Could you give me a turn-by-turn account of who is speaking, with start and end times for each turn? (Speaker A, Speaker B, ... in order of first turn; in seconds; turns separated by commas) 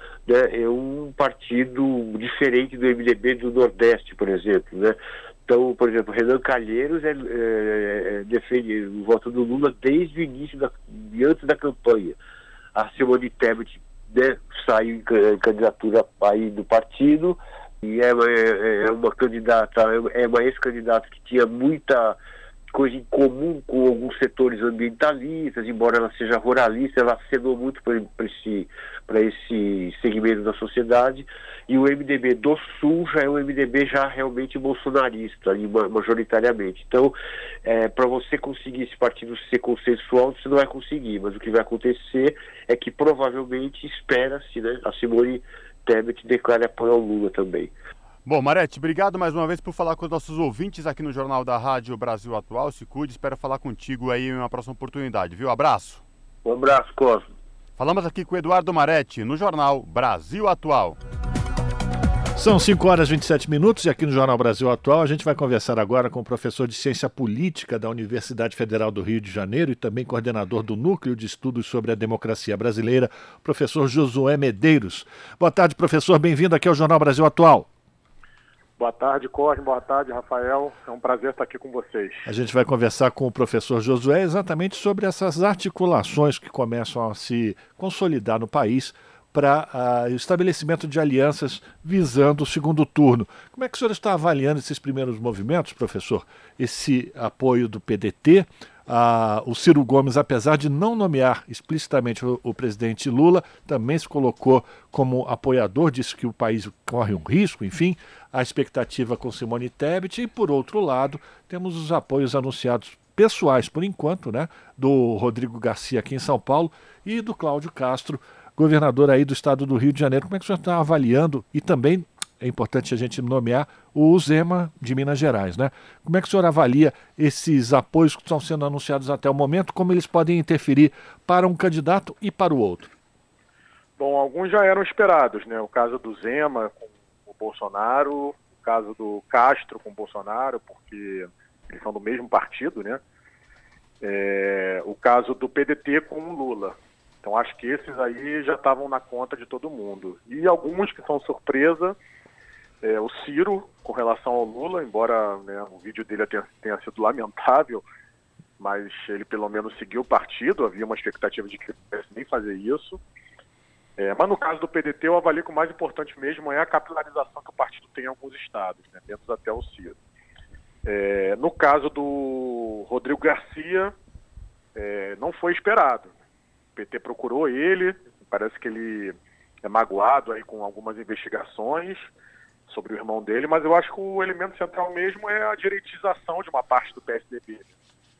Speaker A: 0.2-12.2, Speaker A: 12.7-22.2, Speaker A: 22.7-47.7, Speaker B: 48.2-56.0, Speaker A: 56.4-57.3, Speaker B: 57.8-61.0, Speaker C: 62.4-77.7, Speaker D: 78.8-82.3, Speaker C: 82.2-132.9, Speaker D: 134.0-143.0, Speaker D: 144.0-151.9, Speaker D: 152.8-157.8, Speaker D: 158.6-163.0, Speaker D: 164.0-169.9, Speaker D: 170.8-173.9, Speaker D: 174.8-176.1, Speaker D: 176.7-182.1, Speaker D: 182.7-187.7